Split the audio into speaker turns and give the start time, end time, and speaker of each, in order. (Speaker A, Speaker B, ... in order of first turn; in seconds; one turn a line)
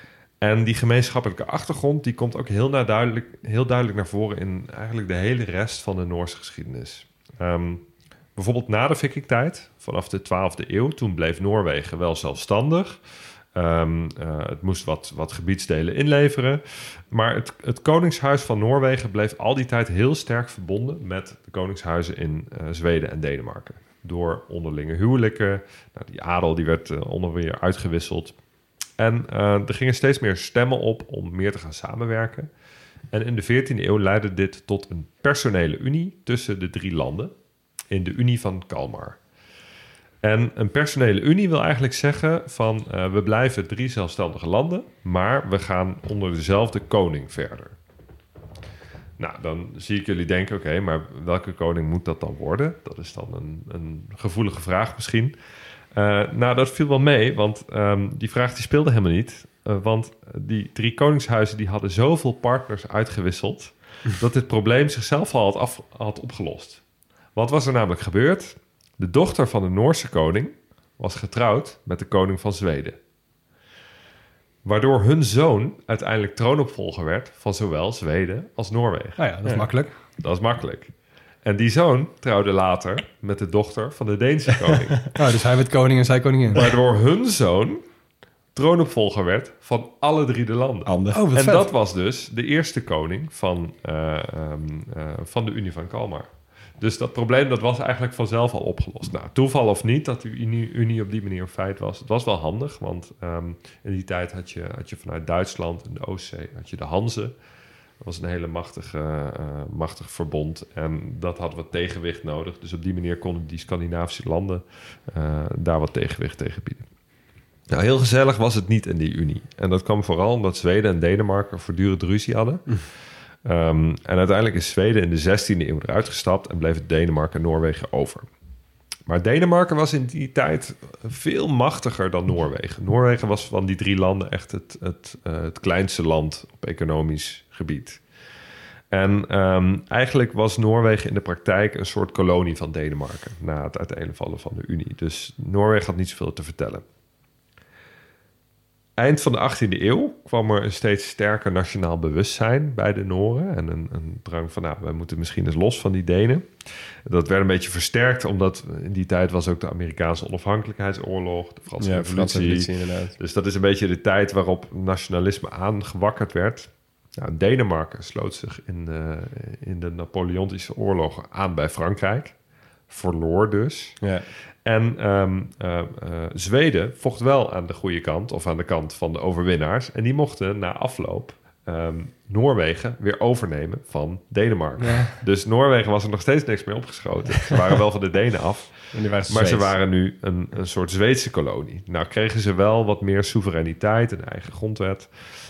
Speaker A: 0.4-7.8
Speaker A: 8.3-13.0
Speaker A: 13.6-28.3
Speaker A: 29.0-32.5
Speaker A: 33.1-37.3
Speaker A: 37.9-39.2
Speaker A: 40.2-47.7
Speaker A: 49.2-55.3
Speaker A: 55.9-66.8
Speaker A: 67.3-73.0
Speaker A: 74.6-79.2
Speaker B: 79.2-79.9
Speaker A: 80.2-80.9
Speaker A: 81.4-85.1
Speaker B: 85.1-86.6
Speaker A: 86.5-87.8
Speaker A: 88.5-96.3
Speaker C: 90.8-91.2
Speaker B: 91.1-91.7
Speaker A: 96.8-107.3
Speaker A: 108.0-116.8
Speaker A: 117.7-122.8
Speaker A: 123.5-128.3
Speaker A: 129.1-138.0
Speaker A: 138.9-146.8
Speaker A: 149.0-156.5
Speaker A: 157.1-172.3
Speaker C: 161.8-163.1
Speaker A: 172.9-174.0
Speaker A: 174.7-188.7
Speaker B: 184.8-185.1
Speaker C: 188.9-189.7
Speaker A: 189.3-195.1